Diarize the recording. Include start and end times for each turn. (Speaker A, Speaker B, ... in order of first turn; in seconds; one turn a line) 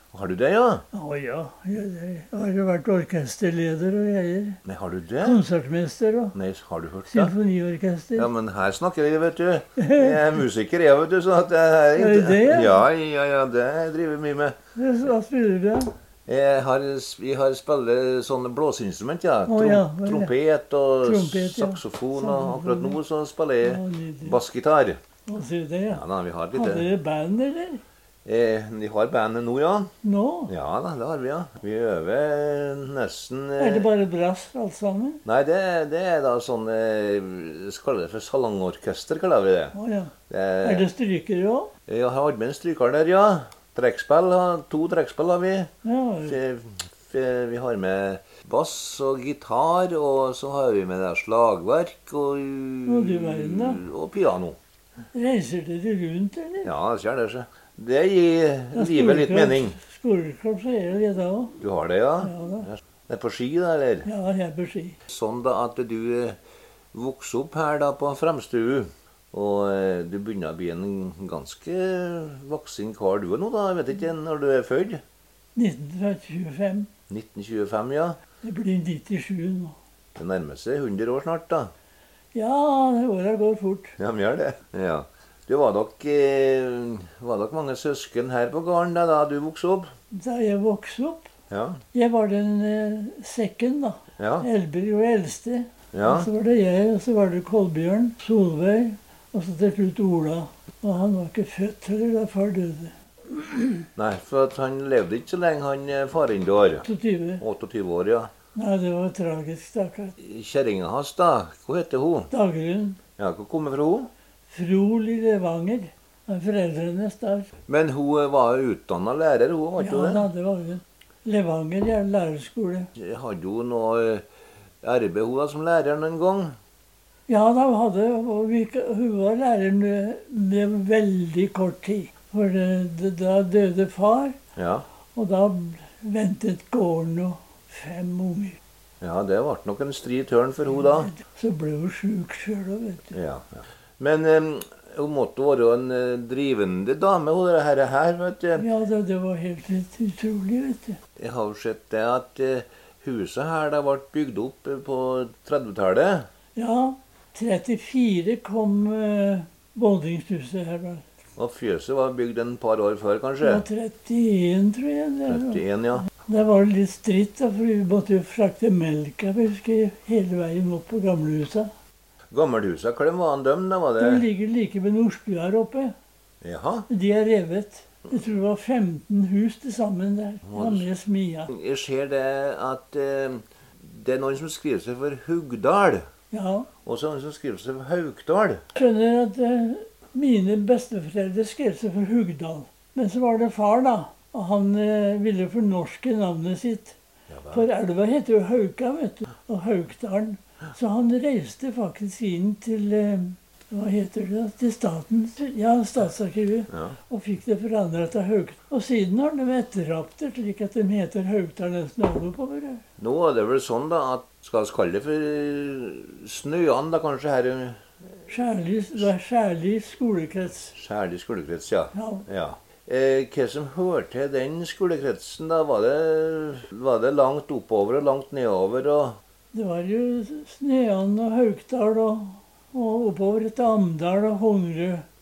Speaker A: 0.1-0.8
Speaker B: 0.9-4.6
Speaker A: 4.6-5.4
Speaker B: 5.2-6.3
Speaker A: 6.3-7.3
Speaker B: 7.1-8.3
Speaker A: 8.2-14.6
Speaker B: 9.8-10.4
Speaker B: 11.9-12.8
Speaker B: 14.8-15.9
Speaker A: 16.3-25.0
Speaker B: 19.5-20.3
Speaker B: 21.0-23.0
Speaker B: 23.6-24.4
Speaker B: 25.3-27.8
Speaker A: 25.9-26.9
Speaker A: 28.2-29.9
Speaker B: 30.0-30.5
Speaker A: 30.5-33.9
Speaker B: 33.6-35.2
Speaker A: 35.2-39.8
Speaker B: 39.7-41.7
Speaker A: 40.3-40.8
Speaker A: 41.9-45.7
Speaker B: 45.8-46.4
Speaker A: 46.2-54.6
Speaker B: 52.9-53.8
Speaker B: 55.1-56.7
Speaker A: 56.6-59.8
Speaker B: 58.7-61.6
Speaker A: 61.6-64.1
Speaker B: 62.2-62.7
Speaker B: 64.0-65.0
Speaker A: 65.1-66.4
Speaker A: 66.9-75.0
Speaker B: 75.6-76.9
Speaker A: 77.1-78.2
Speaker B: 78.4-79.8
Speaker A: 80.2-81.7
Speaker B: 82.3-84.0
Speaker A: 84.0-89.9
Speaker B: 90.1-91.3
Speaker A: 91.5-91.8
Speaker B: 91.9-103.8
Speaker A: 94.2-94.5
Speaker A: 95.9-96.3
Speaker A: 104.0-106.9
Speaker B: 106.8-107.4
Speaker A: 107.4-108.3
Speaker B: 108.5-110.2
Speaker A: 110.2-112.3
Speaker B: 112.3-113.0
Speaker A: 113.2-114.1
Speaker B: 114.5-117.5
Speaker A: 117.7-120.3
Speaker B: 119.8-122.9
Speaker A: 122.9-124.2
Speaker A: 124.8-126.6
Speaker B: 127.3-134.4
Speaker A: 134.6-134.8
Speaker B: 135.2-138.6
Speaker A: 139.0-141.1
Speaker B: 140.9-143.1
Speaker A: 143.1-148.7
Speaker B: 148.6-151.0
Speaker A: 151.2-156.3
Speaker B: 156.6-161.1
Speaker A: 161.4-163.6
Speaker B: 163.4-171.7
Speaker A: 165.3-166.1
Speaker A: 172.3-174.2
Speaker B: 174.0-175.9
Speaker A: 176.4-176.9
Speaker B: 176.9-181.5
Speaker A: 180.4-180.9
Speaker A: 181.5-186.1
Speaker B: 186.3-186.7
Speaker A: 186.8-188.7
Speaker B: 188.8-197.0
Speaker A: 197.3-197.6
Speaker B: 197.5-212.8
Speaker A: 206.7-207.0
Speaker A: 213.0-217.8
Speaker B: 218.3-220.7
Speaker A: 220.7-229.2
Speaker B: 221.9-222.2
Speaker B: 229.5-235.1